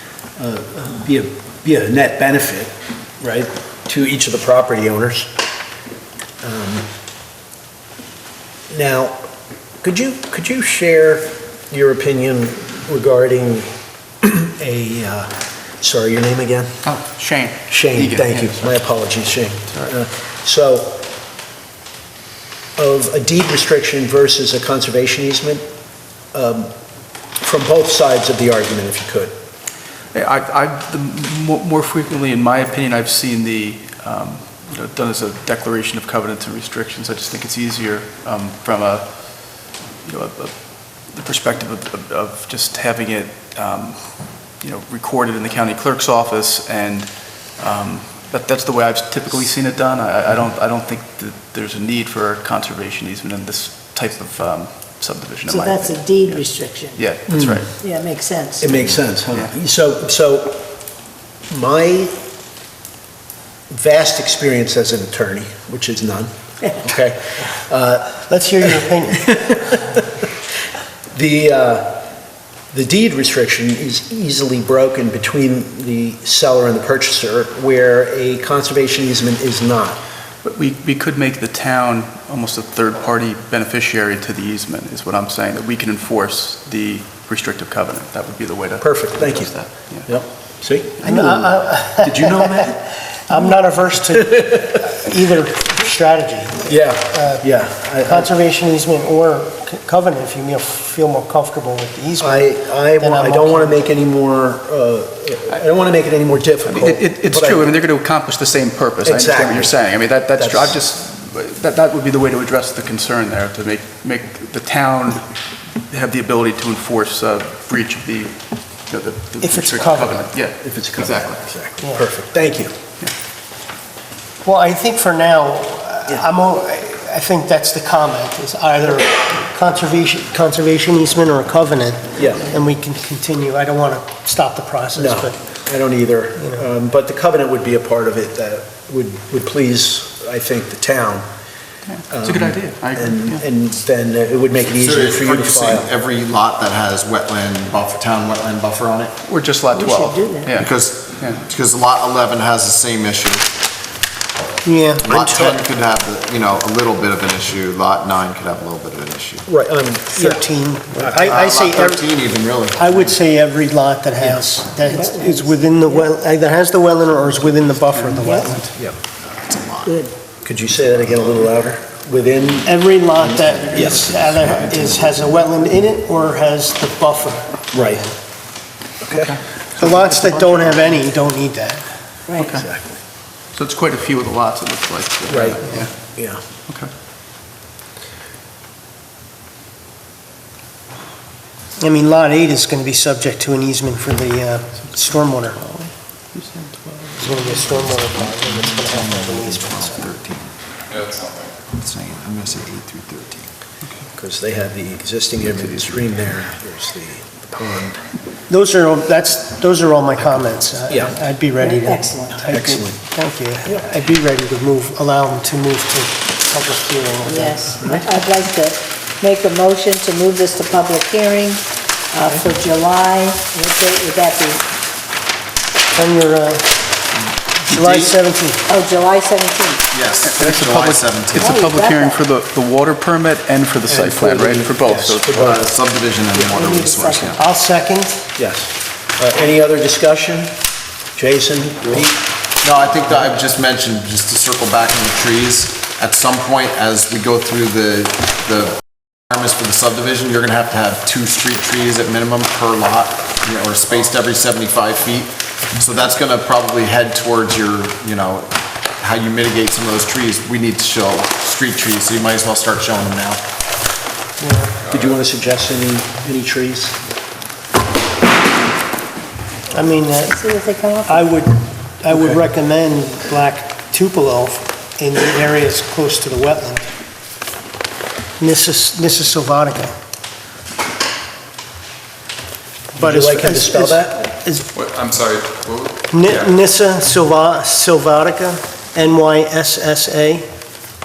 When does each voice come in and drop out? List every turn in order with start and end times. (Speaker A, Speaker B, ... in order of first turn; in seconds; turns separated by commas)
Speaker A: 0.4-5.3, Speaker A: 6.4-6.8, Speaker A: 8.7-9.2, Speaker A: 9.8-16.8, Speaker B: 16.8-18.8, Speaker A: 17.7-21.0, Speaker A: 22.8-25.7, Speaker A: 26.3-26.7, Speaker A: 27.4-29.4, Speaker B: 30.1-57.7, Speaker C: 55.5-59.1, Speaker A: 57.2-57.7, Speaker A: 58.6-60.7, Speaker A: 61.5-62.3, Speaker A: 63.7-68.8, Speaker D: 68.2-69.8, Speaker A: 69.4-70.0, Speaker A: 71.1-72.1, Speaker A: 72.7-80.0, Speaker B: 80.4-90.1, Speaker A: 88.8-89.5, Speaker A: 90.0-92.8, Speaker B: 91.0-91.3, Speaker D: 91.0-103.8, Speaker A: 94.3-94.6, Speaker A: 96.7-98.3, Speaker A: 102.2-107.7, Speaker B: 106.6-115.3, Speaker A: 109.0-109.7, Speaker A: 110.4-110.8, Speaker B: 115.8-121.5, Speaker D: 119.4-120.3, Speaker A: 120.6-122.7, Speaker D: 124.4-135.4, Speaker A: 132.2-132.4, Speaker A: 134.9-141.2, Speaker D: 136.4-136.6, Speaker B: 141.9-143.4, Speaker A: 142.1-145.9, Speaker E: 144.7-149.1, Speaker B: 149.2-151.4, Speaker C: 149.7-150.5, Speaker E: 150.5-153.5, Speaker D: 154.6-155.1, Speaker E: 155.0-159.5, Speaker A: 155.1-155.6, Speaker A: 159.4-160.4, Speaker D: 160.1-162.0, Speaker A: 160.9-161.3, Speaker E: 161.1-162.8, Speaker D: 162.7-168.7, Speaker C: 164.8-166.1, Speaker B: 167.9-168.4, Speaker C: 168.2-168.6, Speaker E: 169.2-170.0, Speaker C: 169.8-170.1, Speaker A: 170.4-174.2, Speaker D: 172.6-177.8, Speaker E: 174.0-175.0, Speaker A: 177.7-178.1, Speaker A: 179.0-179.4, Speaker B: 179.1-180.8, Speaker D: 179.8-181.8, Speaker C: 182.3-182.6, Speaker B: 182.4-182.6, Speaker A: 182.4-183.0, Speaker B: 183.5-185.9, Speaker A: 185.3-186.4, Speaker D: 191.8-195.6, Speaker B: 195.6-197.7, Speaker D: 197.2-200.0, Speaker E: 198.2-200.5, Speaker F: 200.9-201.5, Speaker E: 201.7-203.5, Speaker A: 204.2-208.0, Speaker B: 205.5-206.1, Speaker D: 208.5-217.8, Speaker A: 210.9-211.1, Speaker C: 211.6-212.5, Speaker A: 212.5-213.0, Speaker C: 217.2-224.6, Speaker A: 217.8-218.1, Speaker D: 225.9-226.8, Speaker D: 227.7-228.7, Speaker E: 227.7-228.1, Speaker C: 228.6-229.9, Speaker E: 229.9-231.5, Speaker B: 230.2-235.7, Speaker C: 231.3-232.2, Speaker A: 233.9-236.5, Speaker E: 235.5-237.4, Speaker C: 236.4-237.4, Speaker D: 237.3-238.3, Speaker A: 238.3-240.6, Speaker A: 241.2-242.2, Speaker E: 242.6-263.4, Speaker D: 264.4-264.8, Speaker F: 264.8-265.2, Speaker A: 264.9-267.0, Speaker D: 269.7-270.4, Speaker C: 270.1-271.3, Speaker D: 271.1-276.9, Speaker A: 272.1-272.4, Speaker D: 278.4-279.9, Speaker A: 282.9-284.2, Speaker D: 283.0-284.7, Speaker F: 284.7-286.5, Speaker D: 286.1-290.4